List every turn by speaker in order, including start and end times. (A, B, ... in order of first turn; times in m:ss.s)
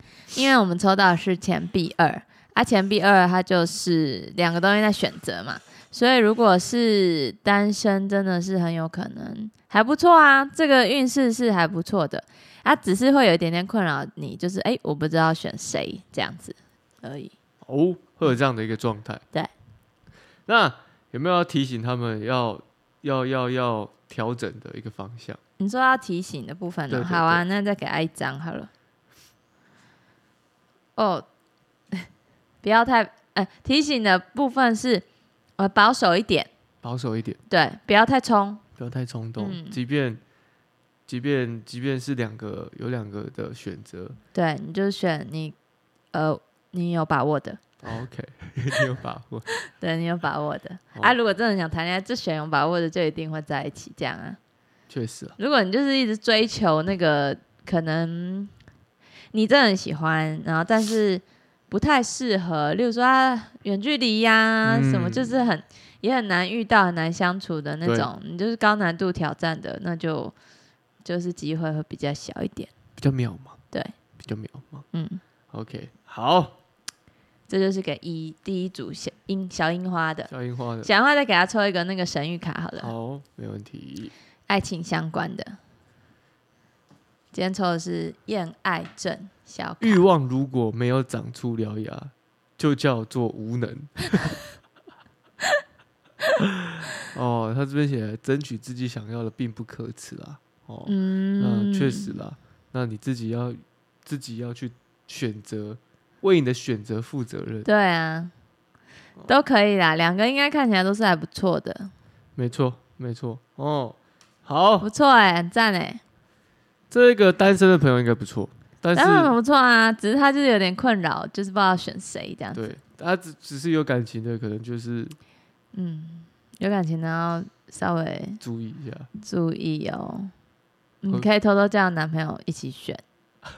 0:00.3-0:17.3 A
0:17.6-0:19.2 B
0:20.5-0:25.4 B
0:25.6-0:28.7 A
0:26.9-0:27.4 B
0:31.0-0:31.3 A
0:32.6-0:35.0 A
0:35.6-0:36.5 A
0:36.8-0:37.4 B
0:37.5-0:38.6 A
0:38.8-0:40.2 B
0:39.4-0:39.8 A
0:41.1-0:44.2 B
0:44.3-0:45.6 A
0:46.1-0:47.6 A
0:47.8-0:49.5 B
0:49.6-0:54.4 A
0:54.9-0:55.4 B
0:55.4-0:58.5 A
0:59.3-1:10.4 A
1:04.6-1:05.4 B
1:07.8-1:08.1 B
1:11.0-1:12.7 A
1:13.0-1:13.6 B
1:14.2-1:14.8 B
1:14.9-1:15.2 A
1:15.5-1:16.6 B
1:17.5-1:20.3 A
1:20.3-1:20.9 B
1:20.8-1:22.9 A
1:22.8-1:24.1 B
1:24.5-1:25.6 A
1:27.3-1:30.0 A
1:29.8-1:34.4 B
1:37.1-1:47.7 B
1:40.9-1:42.2 A
1:47.6-1:48.3 A
1:49.3-1:51.9 A
1:52.4-1:54.9 B
1:54.8-1:56.0 A
1:56.9-1:59.4 B
1:59.0-2:02.6 A
2:02.5-2:05.2 B
2:05.7-2:08.4 A
2:08.4-2:09.1 B
2:09.2-2:10.3 A
2:11.0-2:13.0 A